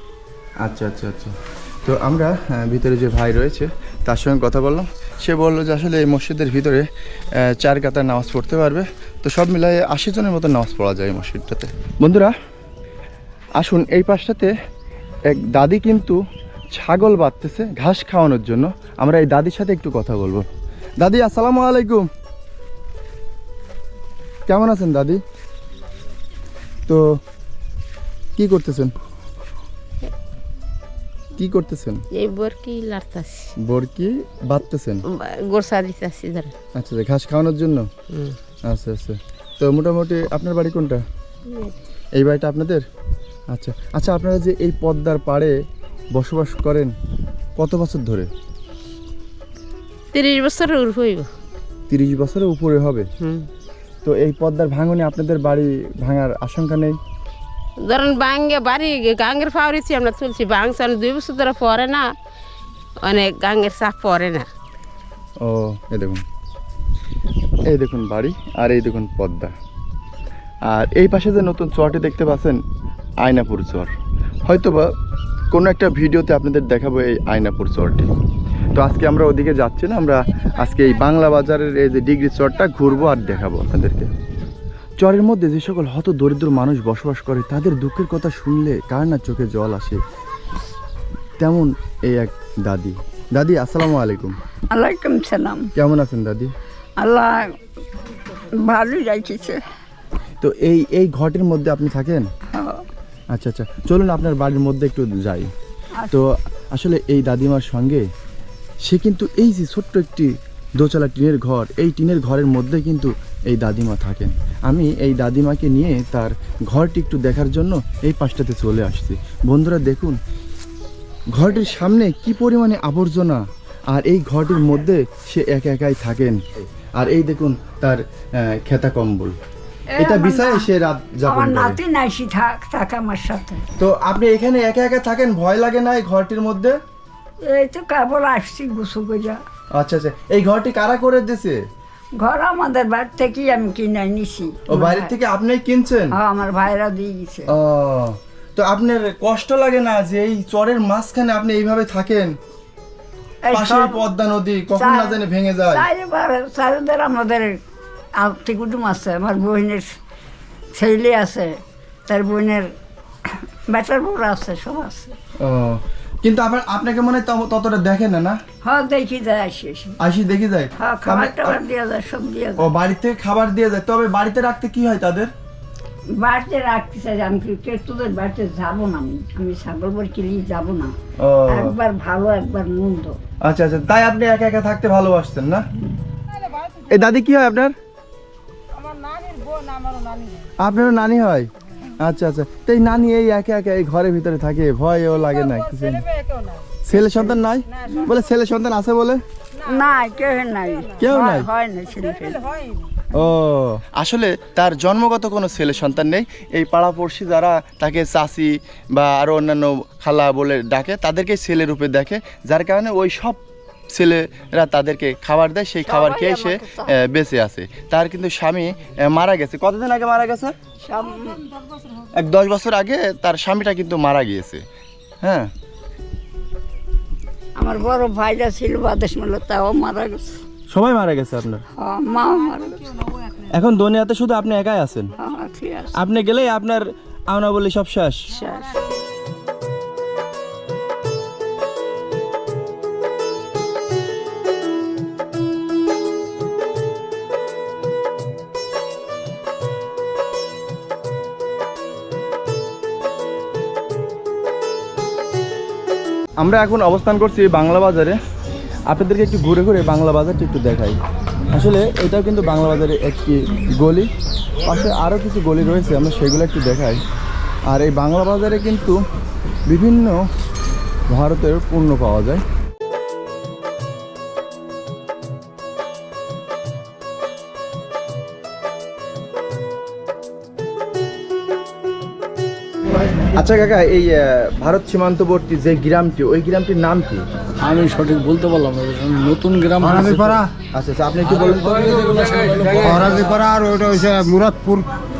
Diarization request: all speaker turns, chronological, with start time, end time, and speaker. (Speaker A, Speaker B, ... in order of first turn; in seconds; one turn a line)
Speaker A: 0.6-1.3
Speaker A: 1.8-6.9
Speaker A: 7.4-12.3
Speaker A: 13.6-14.5
Speaker A: 15.3-16.2
Speaker A: 16.8-20.4
Speaker A: 21.0-22.1
Speaker A: 24.5-25.2
Speaker A: 26.9-27.2
Speaker A: 28.4-28.9
Speaker A: 31.4-32.0
Speaker B: 32.1-33.5
Speaker A: 33.6-35.0
Speaker B: 35.1-36.5
Speaker A: 36.8-37.9
Speaker B: 38.1-38.4
Speaker A: 38.7-41.0
Speaker B: 41.5-41.7
Speaker A: 42.1-42.8
Speaker A: 43.5-45.5
Speaker A: 46.1-46.9
Speaker A: 47.6-48.3
Speaker B: 50.1-51.3
Speaker A: 51.9-53.1
Speaker B: 53.2-53.5
Speaker A: 54.0-57.0
Speaker B: 57.8-62.1
Speaker B: 63.0-64.5
Speaker A: 65.4-66.2
Speaker A: 67.7-69.5
Speaker A: 70.7-72.6
Speaker A: 73.2-73.9
Speaker A: 74.5-74.9
Speaker A: 75.5-78.1
Speaker A: 78.7-84.1
Speaker A: 85.0-90.0
Speaker A: 91.4-94.3
Speaker C: 94.7-95.7
Speaker A: 95.8-96.5
Speaker C: 97.0-97.6
Speaker C: 98.5-99.6
Speaker A: 100.4-102.3
Speaker C: 102.5-102.8
Speaker A: 103.3-105.5
Speaker A: 106.1-108.0
Speaker A: 108.8-120.2
Speaker A: 121.3-129.4
Speaker C: 129.9-130.7
Speaker A: 130.0-131.8
Speaker C: 131.3-133.7
Speaker A: 133.8-136.8
Speaker C: 137.4-139.4
Speaker A: 139.7-141.6
Speaker C: 142.2-145.1
Speaker A: 144.7-146.2
Speaker C: 146.1-147.5
Speaker A: 147.5-152.3
Speaker C: 153.4-154.0
Speaker A: 153.5-155.8
Speaker C: 154.8-157.6
Speaker C: 158.2-159.9
Speaker C: 160.7-162.7
Speaker C: 163.2-165.1
Speaker A: 165.4-168.4
Speaker C: 168.6-170.0
Speaker A: 170.0-171.6
Speaker C: 170.8-172.7
Speaker A: 172.6-175.3
Speaker C: 176.2-180.9
Speaker A: 181.2-181.7
Speaker C: 181.5-183.2
Speaker A: 183.4-185.7
Speaker A: 186.9-187.7
Speaker A: 190.6-191.5
Speaker A: 192.0-196.1
Speaker A: 196.8-199.2
Speaker C: 199.6-202.7
Speaker A: 201.0-201.5
Speaker A: 203.1-213.4
Speaker A: 213.9-220.5
Speaker C: 215.8-216.9
Speaker C: 220.8-221.5
Speaker A: 222.1-224.6
Speaker A: 225.2-225.5
Speaker C: 227.6-230.4
Speaker A: 230.7-231.6
Speaker C: 231.8-233.1
Speaker A: 233.5-235.1
Speaker C: 235.2-236.0
Speaker A: 235.9-238.3
Speaker C: 238.4-238.7
Speaker A: 256.4-258.2
Speaker A: 258.9-261.0
Speaker A: 261.5-264.1
Speaker A: 264.6-267.0
Speaker A: 267.7-269.0
Speaker A: 269.7-270.2
Speaker A: 271.1-272.4
Speaker A: 283.3-287.2
Speaker D: 287.6-290.4
Speaker E: 289.8-290.5
Speaker A: 290.7-292.4
Speaker D: 291.4-293.3
Speaker E: 292.8-294.9